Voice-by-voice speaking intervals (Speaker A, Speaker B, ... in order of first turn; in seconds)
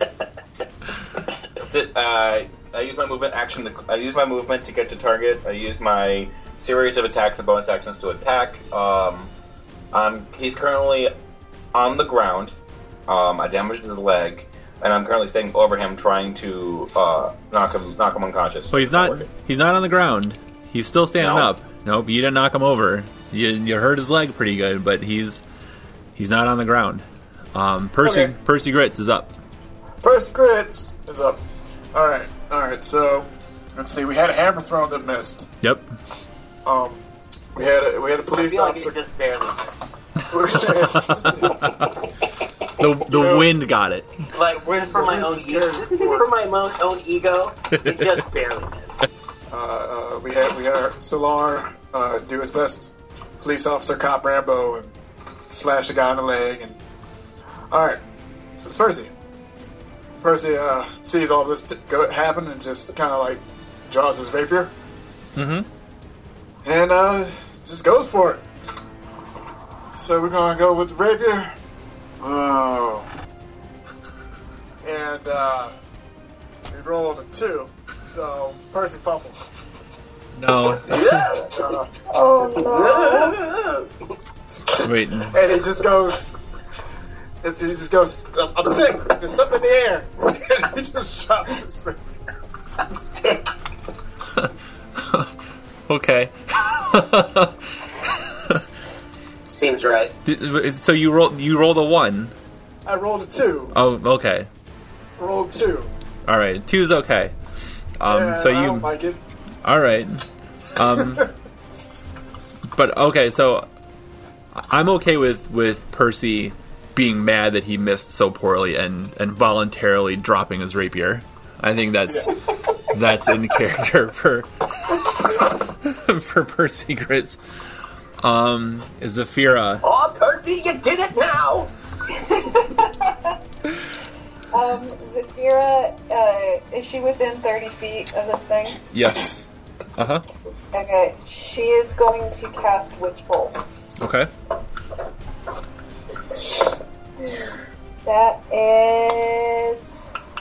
Speaker A: 1.6-9.3, 9.9-11.1, 11.7-12.5, 13.1-19.3, 21.2-21.5
Speaker B: 18.7-25.4, 26.1-29.4, 35.6-35.9, 41.6-41.9, 42.8-44.1, 47.7-48.1, 65.3-65.7, 80.3-81.4, 84.8-85.4, 94.3-95.3, 95.9-97.6, 98.3-98.6, 100.2-102.3, 103.7-104.5, 106.2-107.3, 108.0-108.9, 109.6-111.3, 112.7-113.7, 114.5-127.4, 128.2-129.8, 138.9-140.2, 144.0-144.3
Speaker C: 28.0-28.3, 38.3-39.9, 44.3-49.0, 82.9-83.8, 92.8-93.4, 99.5-100.1, 129.8-131.7
Speaker D: 30.0-31.4, 31.9-35.5, 36.6-39.0, 40.3-41.7, 43.0-43.5, 44.8-46.2, 49.5-54.9, 55.5-56.8, 57.7-58.0, 58.6-59.1, 60.2-64.7, 66.6-68.4, 69.9-71.5, 72.2-73.1, 74.8-75.8, 76.7-79.5, 81.2-81.9, 85.2-86.3, 87.4-92.0, 102.8-103.7, 105.2-105.9, 108.1-109.2
Speaker E: 82.1-83.5, 132.2-132.8, 134.5-138.8, 140.5-143.6, 147.2-147.5, 148.0-150.0